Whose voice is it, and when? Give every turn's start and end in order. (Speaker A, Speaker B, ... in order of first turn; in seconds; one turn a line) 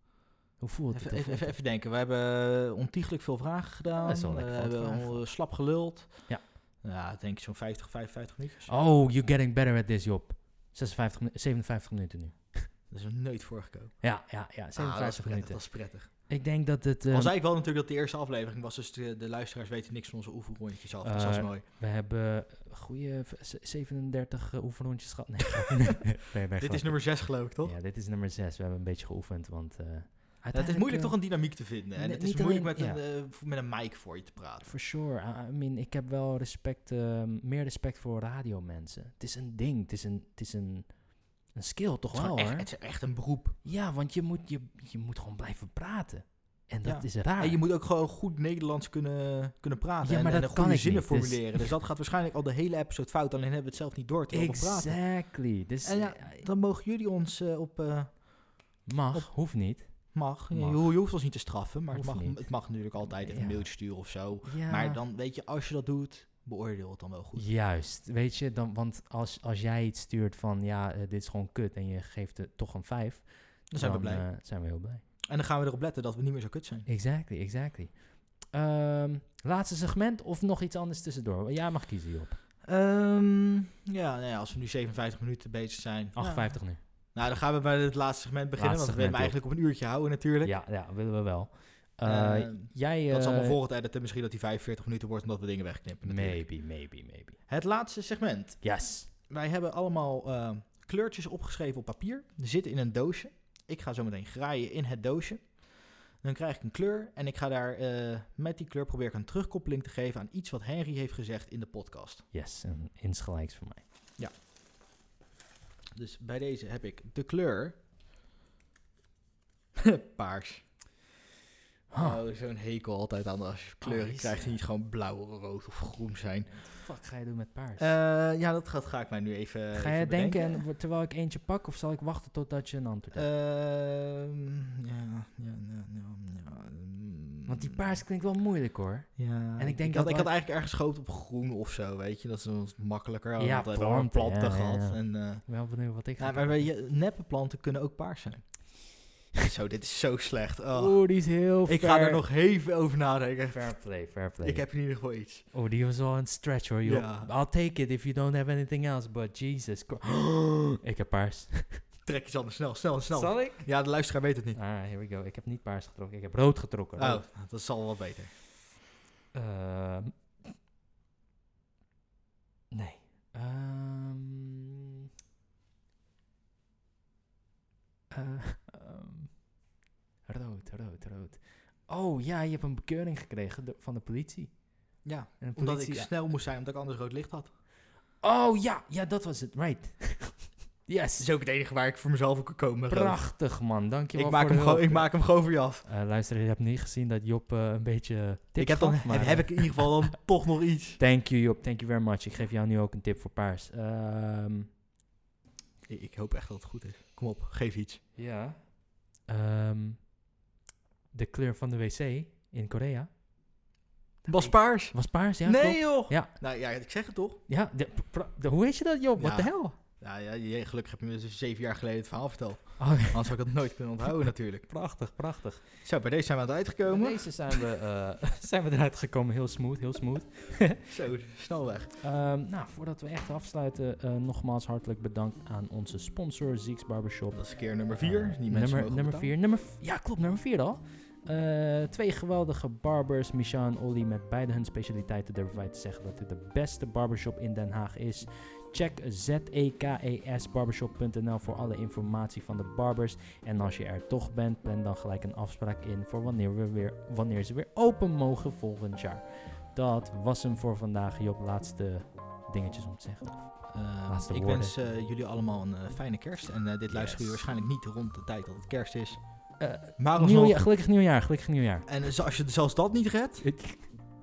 Speaker A: 0.6-1.6
Speaker B: 0.9-8.7
Speaker A: 3.9-5.2
Speaker A: 8.7-12.7
Speaker B: 12.9-14.1
Speaker A: 14.0-17.4
Speaker B: 14.7-16.4
Speaker B: 17.1-21.6
Speaker A: 21.0-33.0
Speaker B: 26.6-27.8
Speaker B: 30.5-34.7
Speaker A: 34.6-42.7
Speaker B: 42.1-43.6
Speaker A: 43.6-47.6
Speaker B: 46.9-55.2
Speaker A: 50.0-51.8
Speaker A: 54.3-56.5
Speaker B: 55.8-58.4
Speaker A: 58.9-60.9
Speaker B: 59.1-59.4
Speaker B: 59.9-67.5
Speaker A: 61.9-63.9
Speaker A: 64.4-65.0
Speaker A: 67.4-75.0
Speaker B: 73.7-74.3
Speaker B: 75.2-76.9
Speaker A: 76.9-82.4
Speaker B: 82.6-90.5
Speaker A: 86.2-86.8
Speaker A: 88.6-89.4
Speaker A: 90.4-93.6
Speaker B: 92.0-96.5
Speaker A: 96.0-97.4
Speaker B: 97.5-112.2
Speaker A: 98.6-99.1
Speaker A: 112.3-113.8
Speaker B: 116.0-117.8
Speaker B: 119.8-120.7
Speaker A: 121.9-122.2
Speaker B: 122.0-126.5
Speaker A: 123.8-124.6
Speaker A: 126.5-128.0
Speaker B: 127.8-130.6
Speaker A: 129.7-133.3
Speaker B: 133.1-138.0
Speaker A: 137.5-140.3
Speaker B: 139.2-145.6
Speaker A: 143.4-146.7
Speaker B: 146.2-148.8
Speaker B: 149.4-151.0
Speaker A: 150.7-152.2
Speaker B: 151.7-155.5
Speaker A: 153.5-154.7
Speaker A: 155.5-161.9
Speaker B: 156.8-157.3
Speaker B: 162.1-164.6
Speaker A: 163.1-163.7
Speaker A: 164.6-167.2
Speaker B: 167.0-168.4
Speaker A: 169.3-170.1
Speaker A: 172.7-174.8
Speaker A: 178.1-179.4
Speaker A: 180.3-184.6
Speaker B: 185.0-187.5
Speaker A: 185.4-186.1
Speaker A: 188.2-191.3
Speaker B: 191.2-193.2
Speaker A: 192.9-195.2
Speaker B: 194.2-195.8
Speaker A: 195.8-200.1
Speaker B: 198.6-201.0
Speaker A: 201.0-204.7
Speaker B: 205.9-208.0
Speaker A: 208.2-210.1
Speaker A: 211.1-213.1
Speaker A: 214.2-216.3
Speaker B: 214.3-217.4
Speaker A: 217.5-219.8
Speaker B: 219.2-224.7
Speaker A: 222.8-223.4
Speaker A: 224.7-225.7
Speaker B: 225.8-227.3
Speaker A: 226.9-230.8
Speaker B: 230.9-232.0
Speaker A: 232.0-264.8
Speaker B: 237.3-239.3
Speaker B: 263.7-270.7
Speaker A: 266.9-267.4
Speaker A: 269.6-271.9
Speaker B: 271.9-273.5
Speaker A: 273.4-274.0